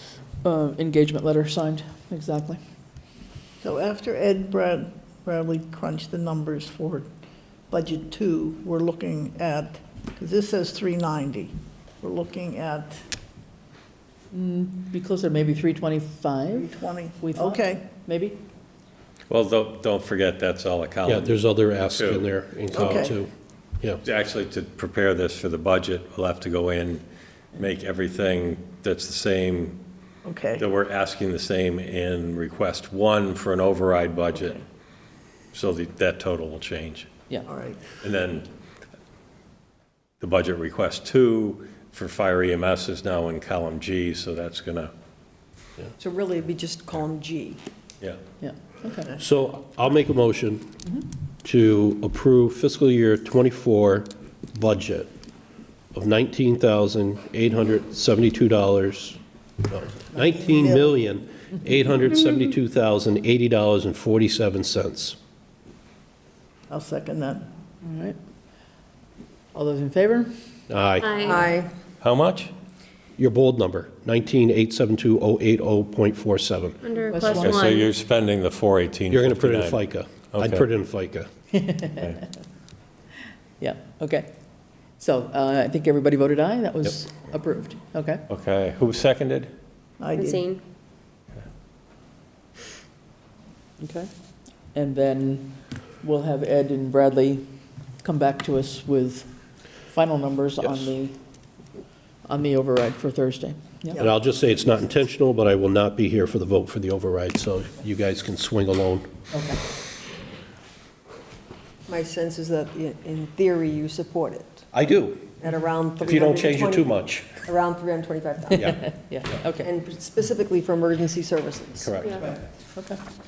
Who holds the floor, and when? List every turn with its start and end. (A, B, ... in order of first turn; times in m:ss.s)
0:00.4-0:02.6 A
0:03.6-0:07.1 B
0:07.7-0:13.0 B
0:14.3-0:18.4 A
0:16.6-0:17.8 B
0:19.3-0:22.8 C
0:21.1-0:23.3 D
0:22.8-0:23.1 B
0:24.0-0:27.0 C
0:27.6-0:29.8 C
0:30.3-0:30.6 B
0:30.6-0:34.6 C
0:35.5-0:37.1 C
0:37.5-0:37.8 B
0:38.0-0:38.5 C
0:40.2-0:44.9 C
0:46.0-0:47.6 E
0:48.4-0:49.1 A
0:49.2-0:50.6 D
0:51.4-0:55.1 D
0:55.9-1:05.2 D
1:06.7-1:07.4 B
1:07.8-1:08.2 A
1:09.5-1:10.3 A
1:10.7-1:11.2 D
1:11.0-1:11.6 F
1:11.2-1:11.7 E
1:12.0-1:12.5 C
1:13.2-1:16.8 D
1:16.8-1:17.9 F
1:17.1-1:17.7 A
1:17.2-1:20.6 C
1:19.1-1:21.3 D
1:21.5-1:22.2 A
1:23.6-1:24.3 A
1:25.0-1:28.2 A
1:28.3-1:29.5 C
1:30.0-1:30.4 B
1:30.2-1:30.6 F
1:33.8-1:34.1 A
1:34.7-1:37.4 A
1:38.0-1:39.3 A
1:39.9-1:41.2 A
1:42.3-1:44.0 A
1:44.0-1:49.1 D
1:49.3-1:49.6 A
1:51.9-1:54.6 E
1:54.7-1:55.3 D
1:55.4-1:58.9 E
1:56.0-1:57.4 D
1:58.6-1:58.8 D
1:58.6-1:59.7 A
1:59.6-2:02.2 E
2:01.8-2:02.1 C